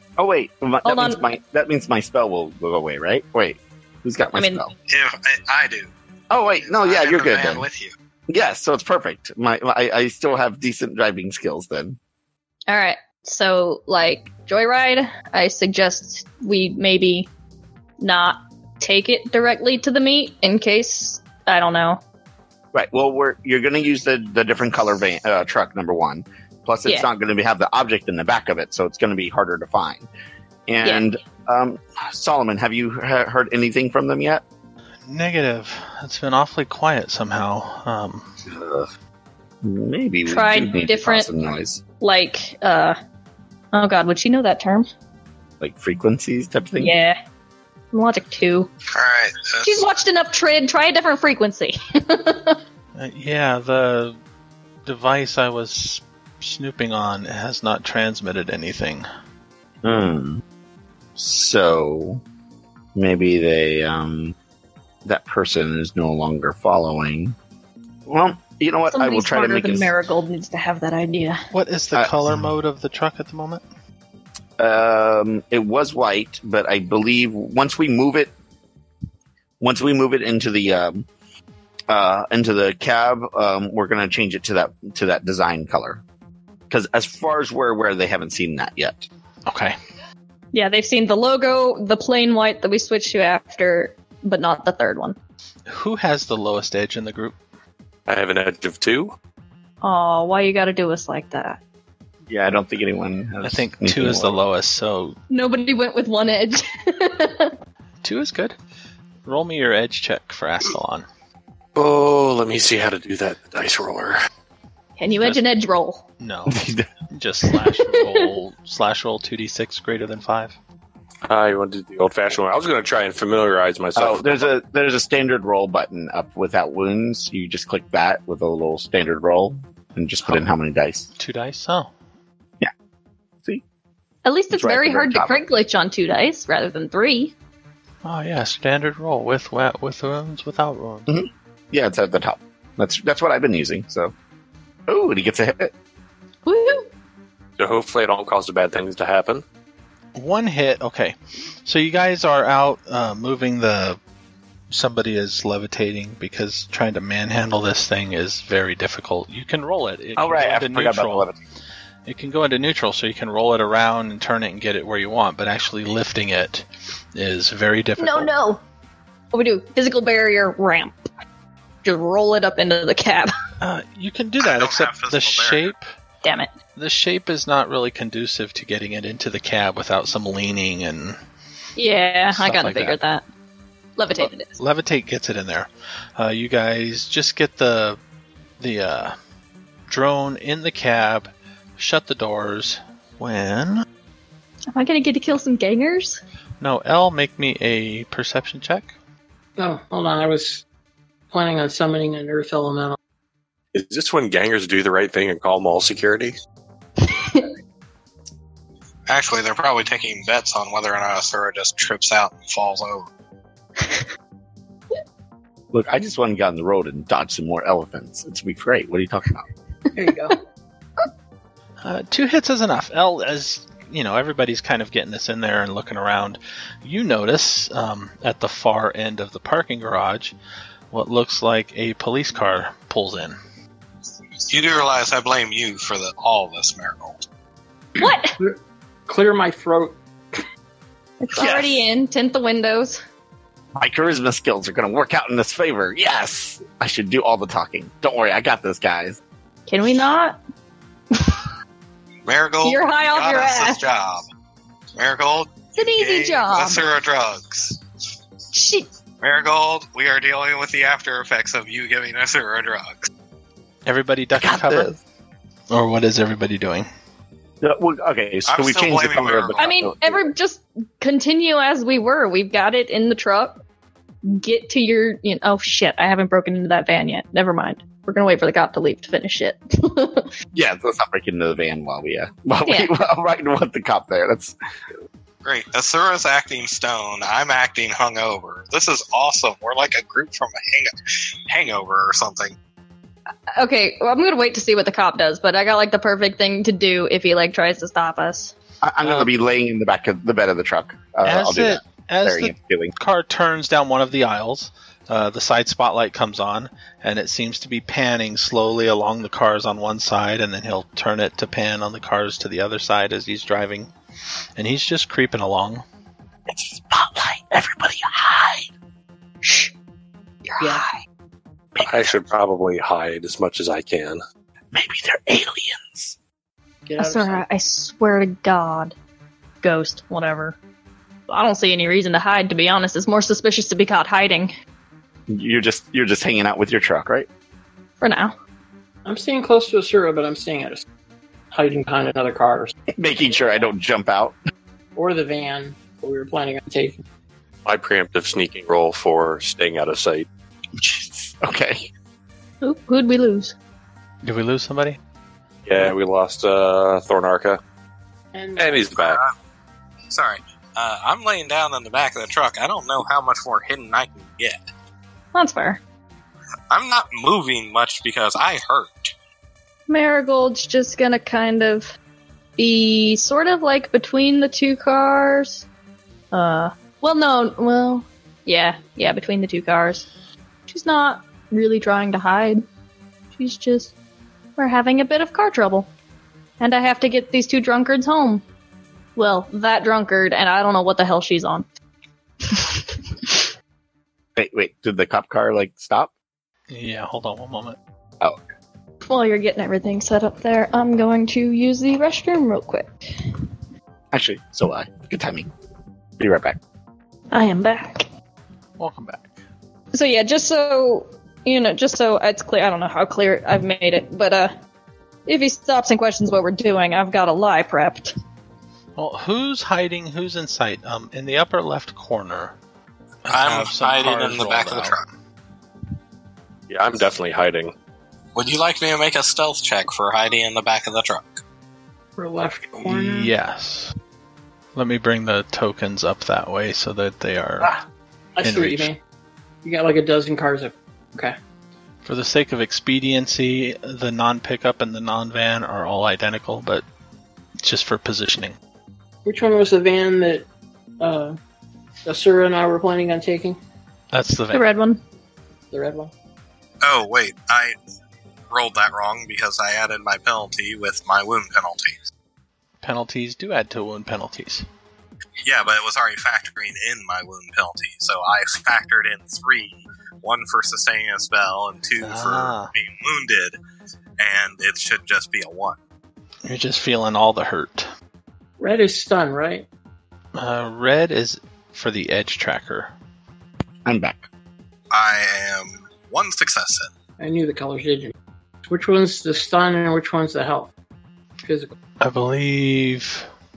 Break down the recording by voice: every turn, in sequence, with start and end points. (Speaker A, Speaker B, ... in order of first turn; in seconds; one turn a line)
Speaker A: 0.2-4.7
Speaker B: 0.8-1.2
Speaker B: 4.3-4.6
Speaker C: 4.9-5.9
Speaker A: 6.3-7.6
Speaker C: 6.6-7.9
Speaker A: 8.3-12.0
Speaker B: 12.7-17.3
Speaker B: 18.0-22.0
Speaker A: 22.7-30.1
Speaker A: 30.7-34.4
Speaker D: 35.1-38.3
Speaker A: 38.4-38.9
Speaker A: 39.6-41.8
Speaker B: 40.3-41.3
Speaker B: 42.0-43.0
Speaker B: 43.7-44.9
Speaker A: 45.6-46.9
Speaker B: 46.8-47.2
Speaker B: 47.9-48.7
Speaker C: 48.9-49.9
Speaker B: 49.6-52.6
Speaker D: 53.0-54.2
Speaker D: 54.9-59.0
Speaker A: 59.8-60.4
Speaker A: 61.1-62.2
Speaker A: 62.9-64.3
Speaker A: 65.0-67.3
Speaker A: 68.0-69.9
Speaker B: 68.9-71.4
Speaker D: 71.5-73.6
Speaker A: 71.9-72.5
Speaker A: 74.6-78.3
Speaker A: 79.6-81.1
Speaker A: 81.9-86.0
Speaker A: 86.7-89.1
Speaker D: 89.5-89.8
Speaker B: 90.5-95.2
Speaker D: 95.7-97.4
Speaker E: 98.1-99.1
Speaker B: 99.8-101.6
Speaker A: 102.3-104.4
Speaker D: 103.4-105.2
Speaker B: 105.3-107.5
Speaker D: 108.0-108.5
Speaker D: 109.2-111.1
Speaker E: 111.8-114.2
Speaker B: 115.0-116.0
Speaker D: 116.2-120.5
Speaker A: 116.5-116.9
Speaker B: 117.9-118.2
Speaker E: 121.2-124.5
Speaker A: 124.0-131.1
Speaker D: 131.2-131.9
Speaker B: 134.2-137.3
Speaker A: 134.5-135.3
Speaker D: 138.0-141.1
Speaker A: 141.1-144.1
Speaker A: 144.9-145.7
Speaker B: 146.4-146.8
Speaker E: 147.6-149.4
Speaker D: 150.1-154.0
Speaker D: 154.7-161.3
Speaker A: 160.2-161.4
Speaker D: 162.1-168.3
Speaker B: 168.0-168.6
Speaker B: 169.3-171.1
Speaker B: 171.8-173.3
Speaker D: 173.6-175.9
Speaker C: 174.4-175.7
Speaker B: 176.2-176.5
Speaker D: 176.8-181.2
Speaker B: 181.8-183.2
Speaker D: 182.3-183.0
Speaker B: 184.0-184.6
Speaker D: 184.1-188.0
Speaker D: 188.6-189.2
Speaker D: 189.9-193.8
Speaker B: 194.7-196.2
Speaker D: 196.6-198.9
Speaker F: 199.6-200.6
Speaker F: 201.3-203.0
Speaker E: 203.7-206.3
Speaker B: 207.0-207.5
Speaker C: 209.1-213.1
Speaker B: 213.8-214.1
Speaker A: 215.7-219.4
Speaker F: 219.9-220.4
Speaker D: 221.8-230.3
Speaker D: 230.9-233.4
Speaker C: 234.5-237.2
Speaker B: 238.0-238.4
Speaker F: 238.0-240.4
Speaker B: 241.2-243.0
Speaker A: 243.8-249.2
Speaker B: 249.7-250.4
Speaker B: 251.1-251.5
Speaker C: 252.2-254.2
Speaker B: 252.6-253.8
Speaker C: 254.9-257.8
Speaker B: 255.7-256.8
Speaker B: 258.5-258.9
Speaker C: 259.2-263.1
Speaker D: 263.9-265.0
Speaker A: 264.4-265.0
Speaker D: 265.7-266.9
Speaker A: 267.6-270.3
Speaker C: 268.5-269.7
Speaker B: 269.6-273.6
Speaker B: 274.2-280.3
Speaker A: 280.5-284.5
Speaker B: 282.7-282.9
Speaker C: 285.4-290.9
Speaker C: 291.5-292.5
Speaker B: 293.5-298.5
Speaker A: 298.8-302.9
Speaker D: 299.0-299.3
Speaker D: 301.2-313.9
Speaker D: 314.6-315.8
Speaker A: 316.5-318.7
Speaker B: 319.4-319.7
Speaker B: 320.5-320.9
Speaker A: 321.7-322.2
Speaker E: 321.8-324.2
Speaker A: 324.7-326.1
Speaker F: 326.9-327.4
Speaker B: 327.0-328.9
Speaker B: 329.6-330.6
Speaker B: 331.3-334.5
Speaker A: 335.3-337.3
Speaker B: 338.0-338.3
Speaker F: 339.1-340.8
Speaker F: 341.5-342.8
Speaker A: 342.9-344.4
Speaker F: 344.9-347.0
Speaker E: 347.6-350.3
Speaker A: 350.8-351.9
Speaker B: 352.6-353.5
Speaker D: 354.2-355.0
Speaker E: 355.6-357.6
Speaker F: 358.3-358.9
Speaker E: 358.6-359.2
Speaker C: 359.0-359.3
Speaker C: 360.1-364.6
Speaker B: 365.3-365.8
Speaker C: 366.7-369.1
Speaker B: 369.9-371.9
Speaker B: 372.6-375.6
Speaker B: 376.3-380.1
Speaker B: 380.7-382.6
Speaker B: 383.4-383.9
Speaker B: 384.6-385.9
Speaker B: 386.6-388.4
Speaker B: 389.1-391.6
Speaker B: 392.4-393.5
Speaker A: 394.4-396.1
Speaker D: 396.7-397.8
Speaker B: 399.1-403.3
Speaker A: 404.1-405.5
Speaker A: 406.2-406.6
Speaker B: 407.3-408.1
Speaker D: 408.8-409.3
Speaker B: 409.9-414.5
Speaker B: 415.3-418.1
Speaker D: 418.9-422.5
Speaker D: 423.3-425.0
Speaker C: 423.3-425.1
Speaker E: 426.7-427.7
Speaker C: 428.3-431.4
Speaker F: 432.2-433.3
Speaker D: 432.8-433.9
Speaker D: 434.7-437.7
Speaker F: 438.4-439.0
Speaker D: 438.4-438.9
Speaker F: 439.6-441.4
Speaker D: 442.0-446.8
Speaker D: 447.6-448.6
Speaker F: 449.2-450.5
Speaker F: 451.0-451.4
Speaker F: 452.0-453.6
Speaker D: 454.1-454.6
Speaker B: 454.5-455.0
Speaker F: 455.7-456.1
Speaker C: 456.8-457.7
Speaker C: 458.5-462.0
Speaker D: 462.8-464.6
Speaker C: 465.4-473.6
Speaker D: 472.0-472.7
Speaker C: 474.2-475.8
Speaker D: 476.4-477.9
Speaker F: 478.6-479.7
Speaker D: 480.4-482.9
Speaker A: 483.8-484.3
Speaker C: 484.9-486.9
Speaker F: 487.2-488.1
Speaker F: 488.7-490.7
Speaker F: 491.4-491.7
Speaker D: 492.0-493.3